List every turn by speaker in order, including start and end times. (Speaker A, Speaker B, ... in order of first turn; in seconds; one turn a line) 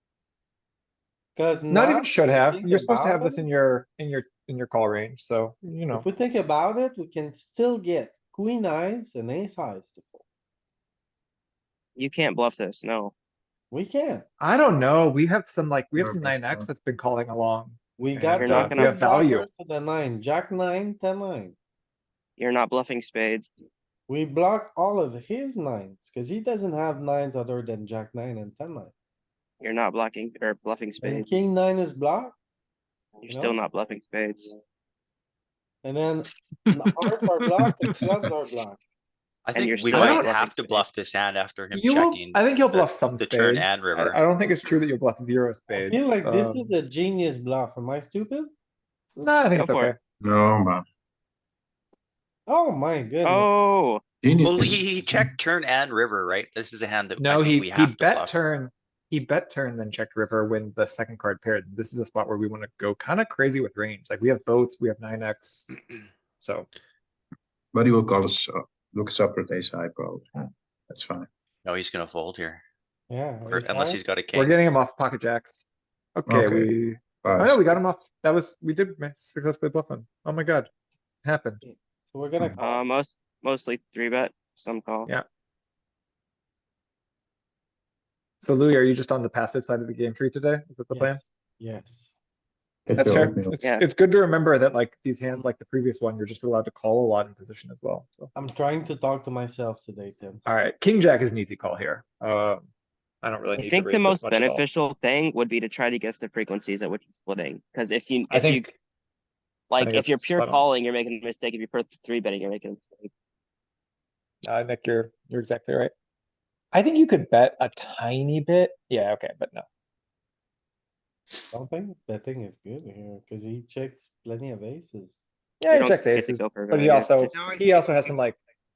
Speaker A: 1.4-3.5
Speaker B: 1.7-6.1
Speaker A: 6.0-10.2
Speaker C: 12.0-13.1
Speaker A: 13.7-14.3
Speaker B: 14.4-19.5
Speaker D: 16.0-16.7
Speaker A: 18.0-21.6
Speaker C: 18.4-19.0
Speaker C: 22.4-23.5
Speaker A: 24.1-28.9
Speaker C: 29.6-31.4
Speaker A: 31.0-32.4
Speaker C: 33.2-34.5
Speaker A: 33.3-33.6
Speaker A: 35.8-38.8
Speaker D: 37.9-38.2
Speaker E: 39.5-44.2
Speaker C: 39.5-40.9
Speaker B: 39.9-40.3
Speaker B: 41.7-46.7
Speaker A: 45.7-48.5
Speaker B: 49.2-50.0
Speaker C: 49.5-49.9
Speaker D: 50.2-50.8
Speaker A: 52.5-53.5
Speaker C: 53.2-54.0
Speaker D: 54.2-55.3
Speaker E: 54.4-58.4
Speaker B: 57.2-65.8
Speaker B: 66.4-66.7
Speaker D: 67.7-71.3
Speaker E: 71.7-72.6
Speaker A: 73.1-74.0
Speaker E: 73.5-74.5
Speaker B: 74.3-80.7
Speaker D: 76.3-77.8
Speaker B: 81.2-81.6
Speaker A: 81.6-82.9
Speaker C: 82.6-85.1
Speaker B: 88.4-91.2
Speaker A: 90.9-92.1
Speaker D: 92.9-93.5
Speaker B: 92.9-98.3
Speaker A: 98.3-100.4
Speaker B: 100.5-102.7
Speaker B: 103.2-104.6
Speaker C: 103.6-108.7
Speaker B: 108.3-108.8
Speaker C: 109.7-113.1
Speaker B: 109.8-110.7
Speaker B: 114.4-115.9
Speaker B: 116.7-119.7
Speaker A: 121.5-125.2
Speaker B: 125.6-128.4
Speaker C: 125.7-127.5